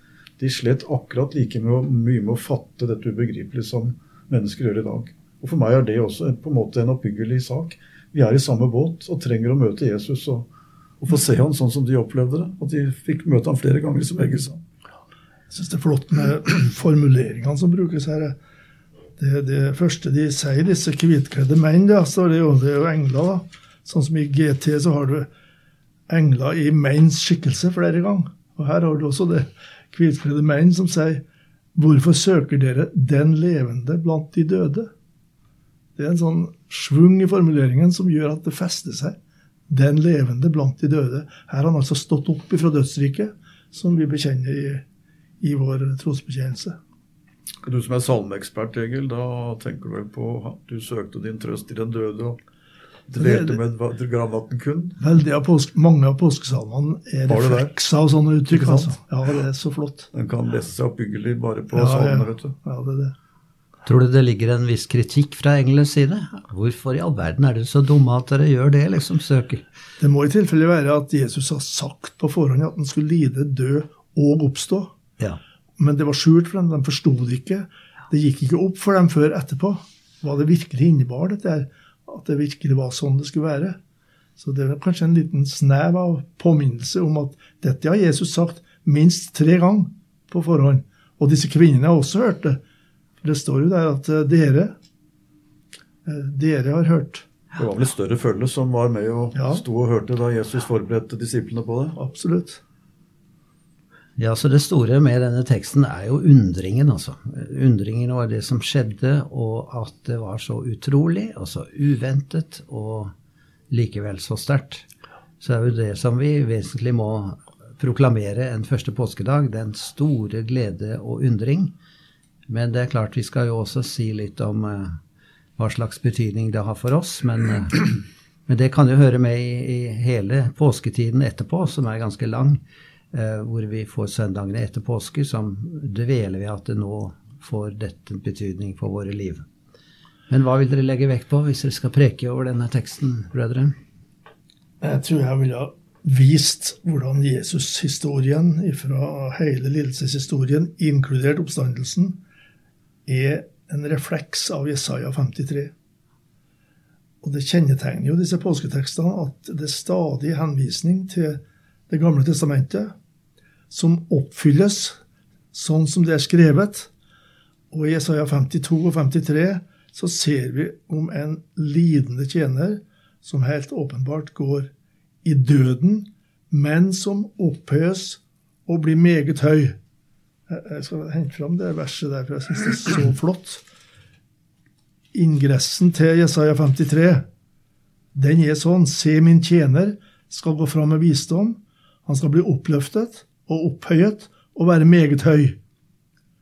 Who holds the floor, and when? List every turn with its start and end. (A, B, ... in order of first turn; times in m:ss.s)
0:00.4-0:10.5 A
0:11.0-0:14.6 A
0:15.5-0:18.4 B
0:19.2-0:25.3 B
0:26.1-0:31.2 B
0:31.7-0:34.9 B
0:36.0-0:39.2 B
0:39.7-0:44.8 B
0:45.4-0:46.8 B
0:47.6-0:52.4 A
0:53.1-0:55.0 A
0:53.2-0:53.6 B
0:55.0-1:00.1 B
0:57.3-0:57.7 A
0:58.5-0:59.0 A
1:00.1-1:02.5 A
1:01.7-1:03.1 B
1:03.8-1:09.6 C
1:10.0-1:14.9 B
1:15.8-1:23.8 B
1:24.4-1:32.6 B
1:33.2-1:34.7 B
1:36.0-1:37.2 B
1:37.5-1:42.0 A
1:39.3-1:39.6 B
1:42.0-1:42.6 B
1:44.2-1:53.1 C
1:53.7-1:54.8 C
1:55.4-2:01.7 C
2:02.5-2:05.0 C
2:05.6-2:12.6 C
2:13.1-2:19.4 C
2:20.3-2:23.7 C
2:24.8-2:32.2 B
2:33.0-2:35.7 B
2:37.2-2:42.9 B
2:43.7-2:45.0 B
2:45.5-2:46.9 B
2:47.7-2:54.7 B
2:55.2-2:59.8 B
3:00.5-3:03.6 B
3:05.1-3:07.2 B
3:08.1-3:15.6 B